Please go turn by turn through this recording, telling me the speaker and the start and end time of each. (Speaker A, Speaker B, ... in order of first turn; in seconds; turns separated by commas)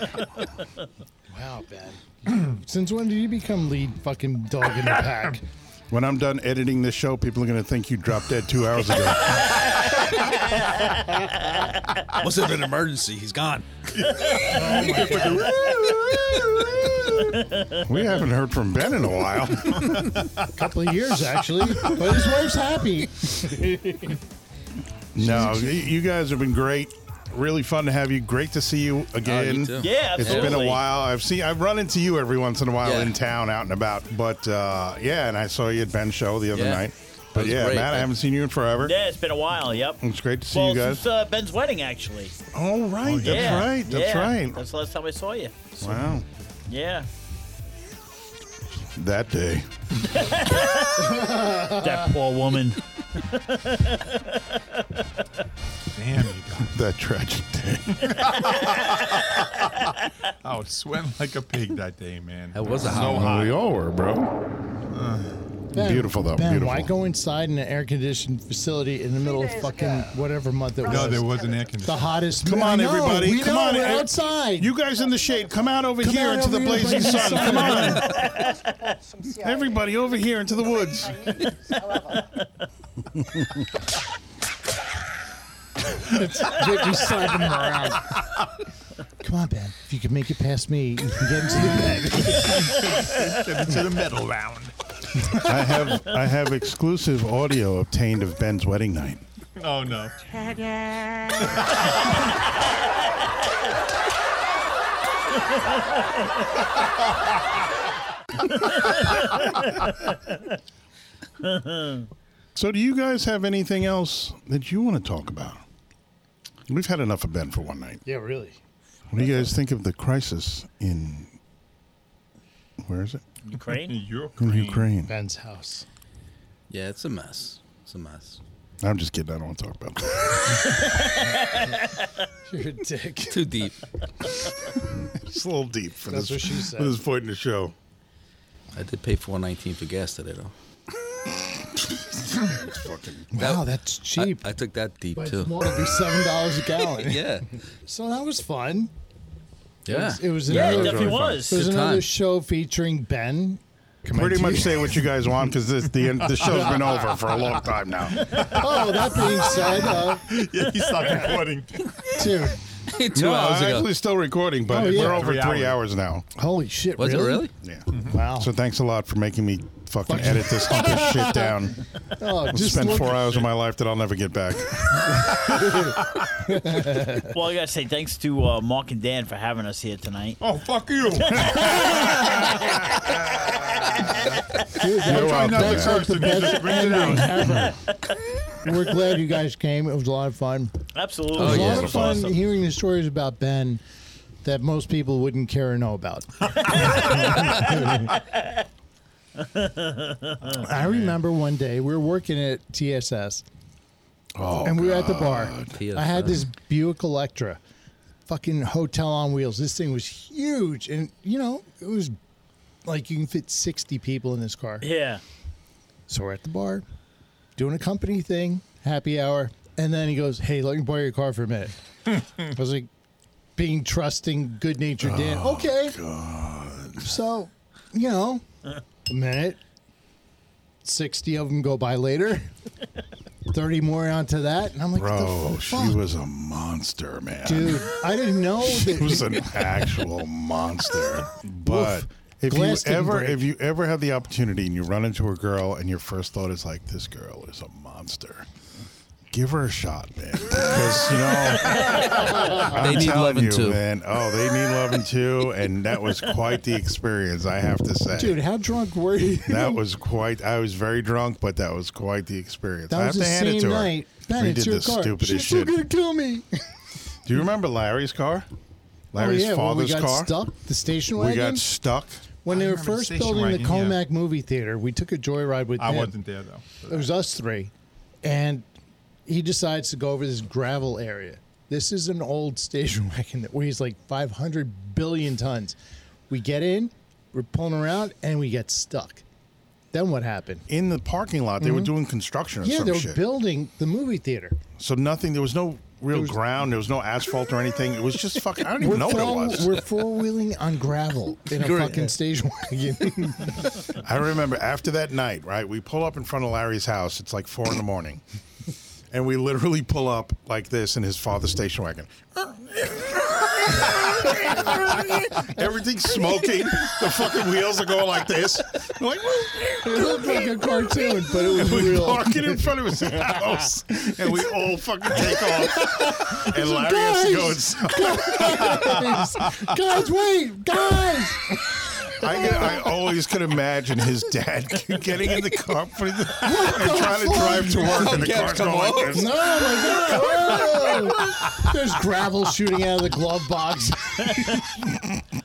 Speaker A: 1.3-5.4, Speaker B: 5.9-9.7, Speaker C: 10.2-11.6, Speaker D: 12.1-13.7, Speaker E: 13.9-17.4, Speaker A: 14.5-15.6, Speaker B: 17.8-20.2, Speaker E: 19.8-20.4, Speaker A: 20.5-24.2, Speaker B: 25.1-38.9, Speaker A: 25.2-25.8, Speaker D: 29.2-30.6, Speaker C: 29.8-30.8, Speaker D: 32.8-33.1, Speaker D: 36.5-36.8, Speaker D: 37.3-38.1, Speaker C: 38.8-40.0, Speaker B: 40.0-41.0, Speaker C: 40.5-42.3, Speaker B: 42.5-44.6, Speaker E: 43.0-43.7, Speaker C: 43.2-45.9, Speaker B: 45.8-46.2, Speaker C: 46.7-47.1, Speaker B: 49.0-49.7, Speaker C: 50.1-55.0, Speaker A: 51.1-51.9, Speaker E: 55.9-56.7, Speaker B: 56.6-58.1, Speaker E: 58.0-59.9, Speaker E: 60.4-63.5, Speaker D: 62.5-63.3, Speaker B: 62.9-64.3, Speaker E: 64.9-65.3, Speaker A: 65.7-71.3, Speaker B: 65.7-66.9, Speaker E: 70.8-72.2, Speaker A: 71.8-74.7, Speaker B: 72.4-78.2, Speaker A: 76.0-78.1, Speaker C: 78.1-78.9, Speaker B: 79.3-81.5, Speaker A: 85.9-88.2, Speaker A: 89.2-92.9, Speaker E: 92.3-95.7, Speaker B: 95.4-99.2, Speaker E: 99.6-100.2, Speaker E: 101.3-101.9, Speaker C: 108.5-110.4, Speaker C: 111.4-112.0, Speaker B: 112.5-115.6, Speaker B: 116.7-118.0, Speaker A: 118.0-118.6, Speaker B: 119.1-121.3, Speaker B: 122.8-123.2, Speaker C: 123.5-124.0, Speaker E: 123.7-124.9, Speaker B: 124.4-125.1, Speaker A: 125.1-125.8, Speaker D: 126.7-128.4, Speaker B: 128.8-130.8, Speaker C: 131.0-131.8, Speaker A: 132.5-133.6, Speaker D: 133.3-133.7, Speaker B: 135.1-137.7, Speaker A: 136.1-137.0, Speaker D: 138.7-140.5, Speaker B: 141.4-143.3, Speaker A: 143.3-144.4, Speaker D: 143.4-143.6, Speaker D: 144.2-145.6, Speaker A: 145.1-148.9, Speaker D: 146.8-147.5, Speaker D: 149.8-150.9, Speaker A: 149.9-155.0, Speaker C: 150.5-151.6, Speaker B: 150.5-151.4, Speaker D: 151.5-152.1, Speaker B: 154.1-158.4, Speaker E: 156.2-156.7, Speaker A: 156.4-157.4, Speaker E: 158.2-161.9, Speaker A: 158.5-160.3, Speaker A: 162.1-162.6, Speaker D: 162.9-163.9, Speaker B: 163.1-166.3, Speaker E: 164.7-165.8, Speaker A: 164.7-165.3, Speaker A: 166.3-167.5, Speaker D: 167.0-167.5, Speaker B: 167.6-171.8, Speaker E: 167.9-168.2, Speaker A: 168.1-168.5, Speaker A: 170.1-171.5, Speaker A: 172.2-173.2, Speaker B: 172.5-175.4, Speaker E: 173.1-173.4, Speaker A: 175.4-177.4, Speaker C: 177.2-180.4, Speaker E: 180.4-182.0, Speaker C: 181.2-184.2, Speaker B: 181.5-183.7, Speaker A: 181.8-182.1, Speaker A: 184.7-187.8, Speaker E: 185.0-187.4, Speaker B: 185.0-186.2, Speaker B: 187.4-187.7, Speaker A: 188.6-190.7, Speaker C: 190.9-192.3, Speaker D: 191.3-192.2, Speaker A: 191.3-193.8, Speaker B: 191.4-192.4, Speaker A: 194.4-198.1, Speaker E: 196.9-197.4, Speaker C: 199.4-200.4, Speaker E: 200.4-201.2, Speaker A: 200.6-203.4, Speaker B: 204.3-205.8, Speaker A: 204.6-207.6, Speaker D: 205.7-206.4, Speaker A: 208.3-212.2, Speaker A: 212.8-214.8, Speaker C: 214.8-215.2, Speaker A: 216.1-216.8, Speaker A: 217.6-221.7, Speaker A: 222.3-222.9, Speaker A: 223.6-226.0, Speaker B: 225.0-227.1, Speaker A: 227.0-228.4, Speaker A: 229.1-229.6, Speaker A: 230.8-232.5, Speaker A: 233.5-236.0, Speaker B: 234.9-237.9, Speaker A: 237.4-239.6, Speaker B: 238.7-248.5, Speaker A: 241.6-243.5, Speaker B: 249.3-258.4, Speaker A: 252.3-252.6, Speaker D: 252.6-253.8, Speaker A: 258.1-259.8, Speaker B: 259.4-265.7, Speaker A: 262.9-266.6, Speaker B: 267.2-268.5, Speaker B: 269.1-270.4, Speaker A: 269.1-271.6, Speaker B: 271.1-272.2, Speaker A: 272.4-276.2, Speaker E: 272.5-274.0, Speaker E: 275.8-277.1, Speaker A: 276.9-277.7, Speaker A: 278.2-278.6, Speaker A: 279.3-285.8, Speaker A: 286.3-289.2, Speaker A: 289.9-290.6, Speaker B: 290.7-293.2, Speaker A: 291.6-291.9, Speaker A: 292.6-294.6, Speaker B: 294.8-299.8, Speaker A: 298.8-303.8, Speaker D: 301.5-302.1, Speaker B: 303.9-308.2, Speaker B: 309.1-320.6, Speaker A: 319.8-323.5, Speaker B: 321.3-328.6, Speaker A: 325.2-332.9, Speaker E: 328.6-329.2, Speaker B: 332.2-339.4, Speaker A: 336.4-338.3, Speaker D: 337.8-339.3, Speaker A: 339.1-344.9, Speaker D: 340.7-341.4